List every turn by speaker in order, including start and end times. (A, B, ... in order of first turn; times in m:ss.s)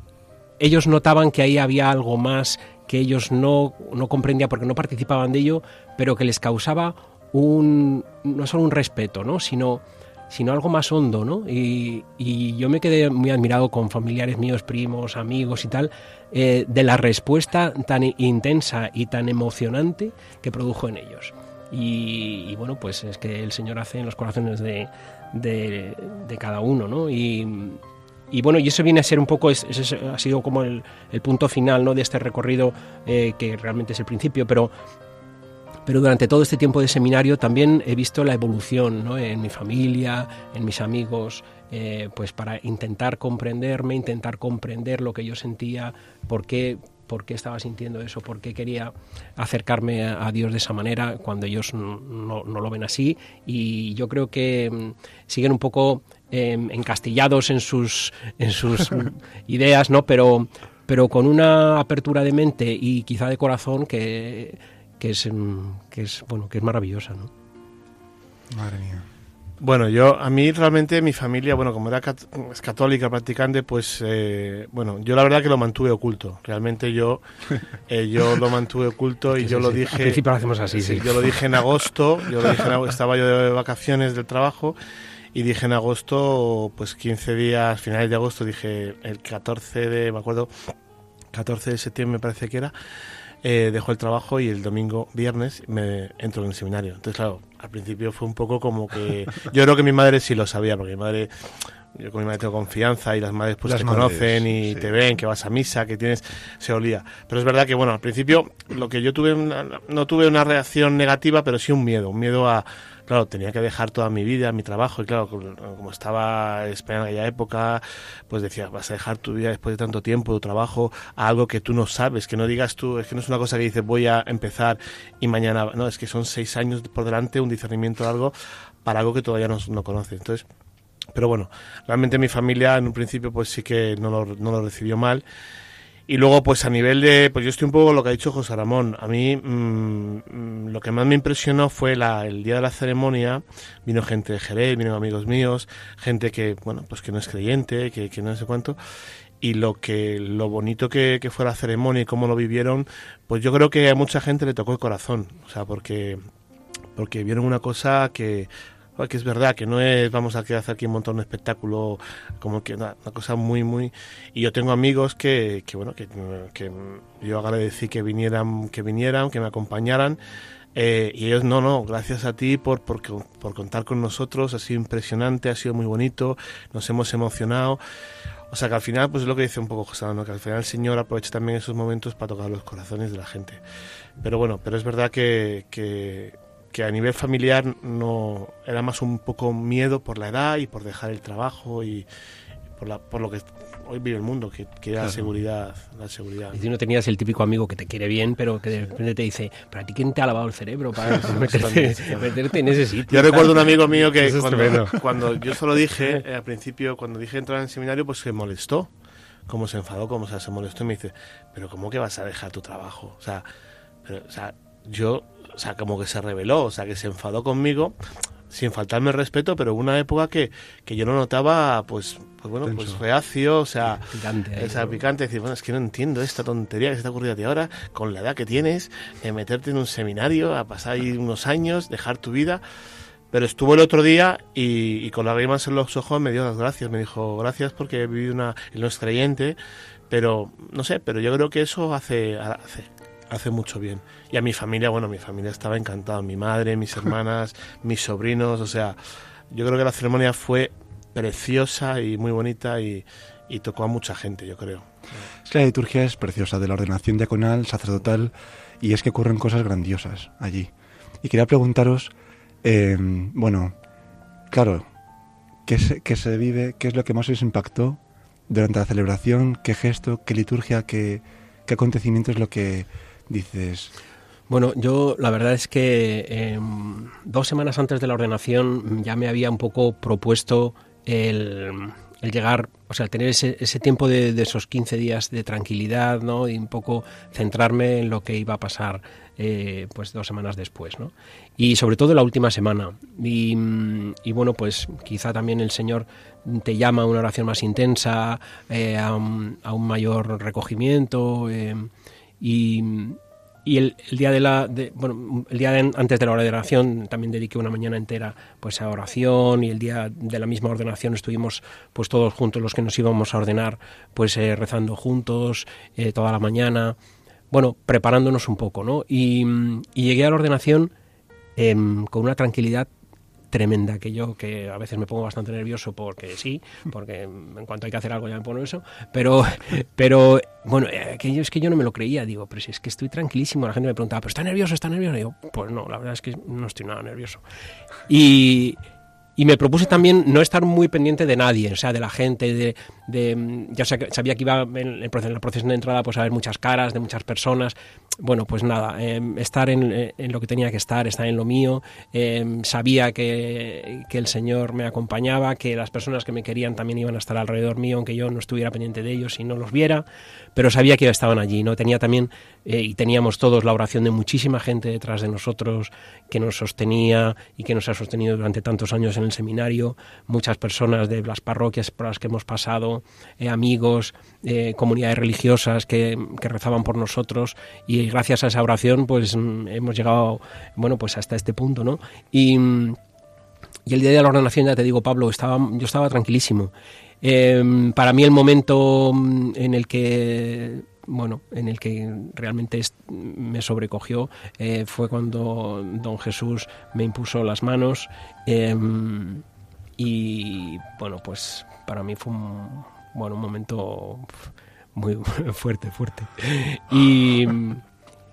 0:00.6-0:34.7 A
0:35.8-1:07.3 A
1:08.5-1:09.0 B
1:09.6-1:17.2 C
1:17.9-1:20.2 C
1:19.4-1:21.5 A
1:20.7-1:24.8 C
1:25.3-1:30.5 C
1:31.3-1:32.7 C
1:33.4-2:08.3 C
1:43.6-1:44.9 B
2:08.8-2:10.4 C
2:11.1-2:15.2 C
2:16.1-2:28.8 C
2:29.4-2:36.2 C
2:37.0-2:50.2 C
2:50.7-2:57.8 C
2:58.5-3:03.6 C
3:04.2-3:12.1 C
3:12.8-3:16.6 C
3:15.0-3:15.3 B
3:16.5-3:25.0 A
3:21.1-3:22.3 C
3:23.1-3:28.9 C
3:29.5-3:33.5 C
3:34.0-3:38.0 C
3:38.5-3:52.6 C
3:42.6-3:43.0 B
3:44.1-3:45.0 A
3:53.3-3:59.6 C
4:00.1-4:09.0 C
4:09.5-4:14.9 C
4:15.4-4:20.7 B
4:21.2-4:22.1 B
4:22.6-4:23.7 B
4:24.5-4:24.9 B
4:25.6-4:33.9 B
4:34.5-5:01.9 A
5:02.4-5:17.0 A
5:17.5-5:20.9 A
5:21.6-5:22.9 A
5:23.5-5:37.4 A
5:38.1-5:38.8 A
5:39.4-6:23.0 A
6:23.8-6:26.7 A
6:27.2-6:39.4 A
6:40.0-6:47.8 A